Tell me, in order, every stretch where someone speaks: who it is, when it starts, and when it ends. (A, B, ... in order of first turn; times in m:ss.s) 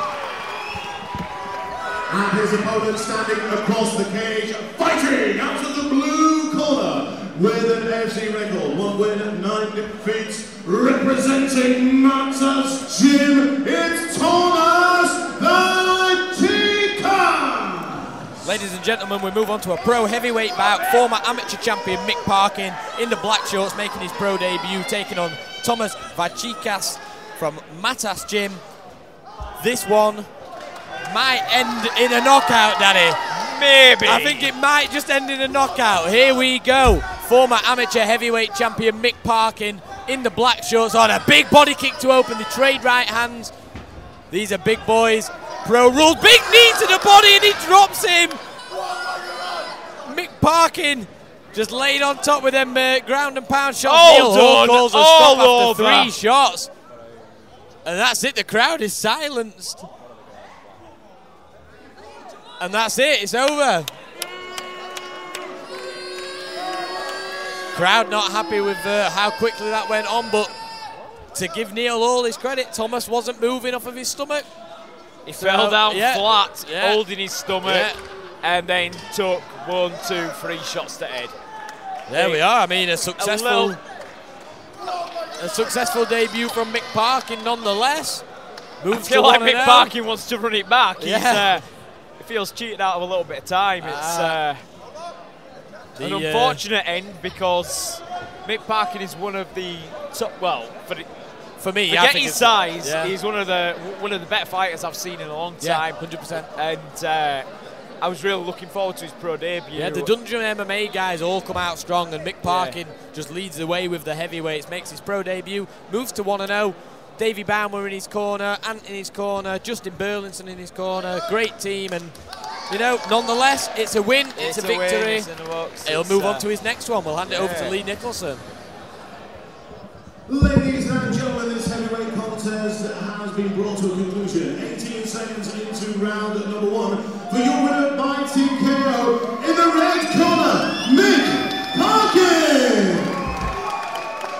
0:02.1-0:18.6 A
0:18.4-0:28.6 B
0:29.6-0:30.3 B
0:31.1-0:33.2 B
0:33.3-0:34.5 C
0:34.0-0:43.5 B
0:44.3-0:48.4 B
0:50.0-0:56.7 B
0:53.8-0:56.1 C
0:57.8-0:59.9 B
1:02.6-1:03.9 B
1:07.7-1:10.5 B
1:11.3-1:14.5 B
1:15.2-1:21.3 C
1:15.4-1:18.0 B
1:22.1-1:23.8 B
1:22.1-1:22.4 C
1:23.0-1:23.8 C
1:25.4-1:28.2 B
1:28.8-1:29.9 B
1:28.9-1:34.6 C
1:31.0-1:31.6 B
1:33.8-1:34.4 B
1:36.0-1:36.6 B
1:36.0-1:41.1 C
1:41.6-1:43.1 B
1:41.8-1:50.1 C
1:45.6-1:46.5 B
1:49.7-2:02.2 B
1:52.4-1:52.8 C
2:02.7-2:05.3 B
2:04.4-2:07.8 C
2:05.8-2:08.4 B
2:10.3-2:23.2 A